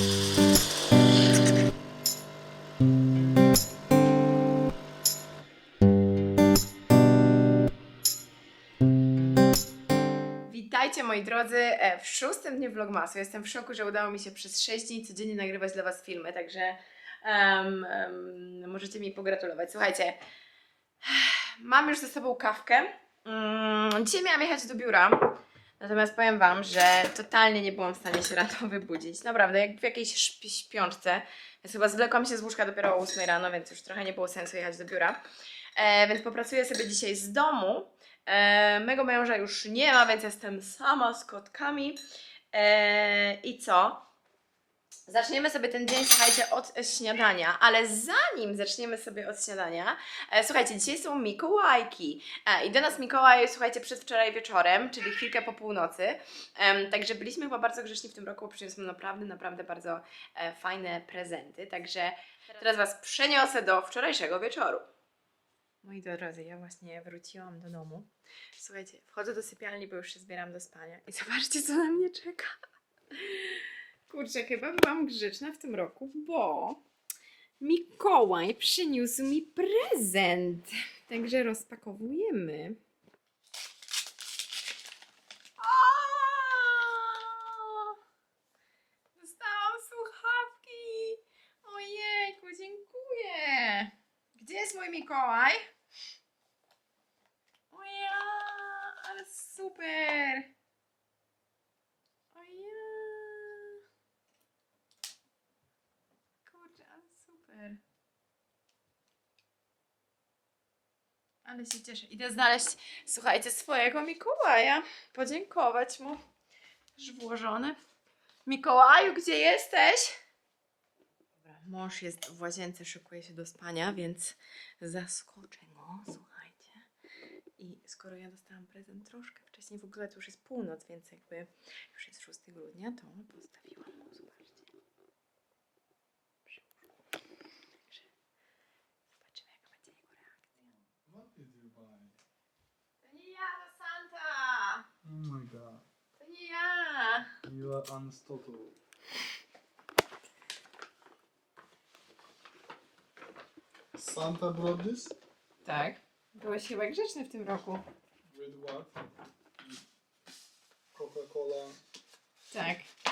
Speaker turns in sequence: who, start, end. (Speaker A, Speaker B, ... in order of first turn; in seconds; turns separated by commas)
Speaker A: 10.4-20.2, Speaker A: 21.0-35.2, Speaker A: 35.8-42.0, Speaker A: 42.5-44.0, Speaker A: 45.1-64.9, Speaker A: 65.8-76.8, Speaker A: 77.6-82.8, Speaker A: 85.6-88.0, Speaker A: 89.2-95.7, Speaker A: 97.7-100.5, Speaker A: 102.3-103.8, Speaker A: 106.5-107.8, Speaker A: 111.4-116.2, Speaker A: 117.0-117.8, Speaker A: 118.5-120.2, Speaker A: 121.4-126.8, Speaker A: 127.6-134.7, Speaker A: 139.2-140.3, Speaker B: 140.6-142.2, Speaker A: 143.0-144.9, Speaker B: 145.0-145.8, Speaker A: 146.2-147.4, Speaker B: 147.4-148.8, Speaker B: 153.9-155.2, Speaker A: 155.6-157.8, Speaker B: 158.3-159.0, Speaker B: 160.9-161.8, Speaker A: 162.5-162.9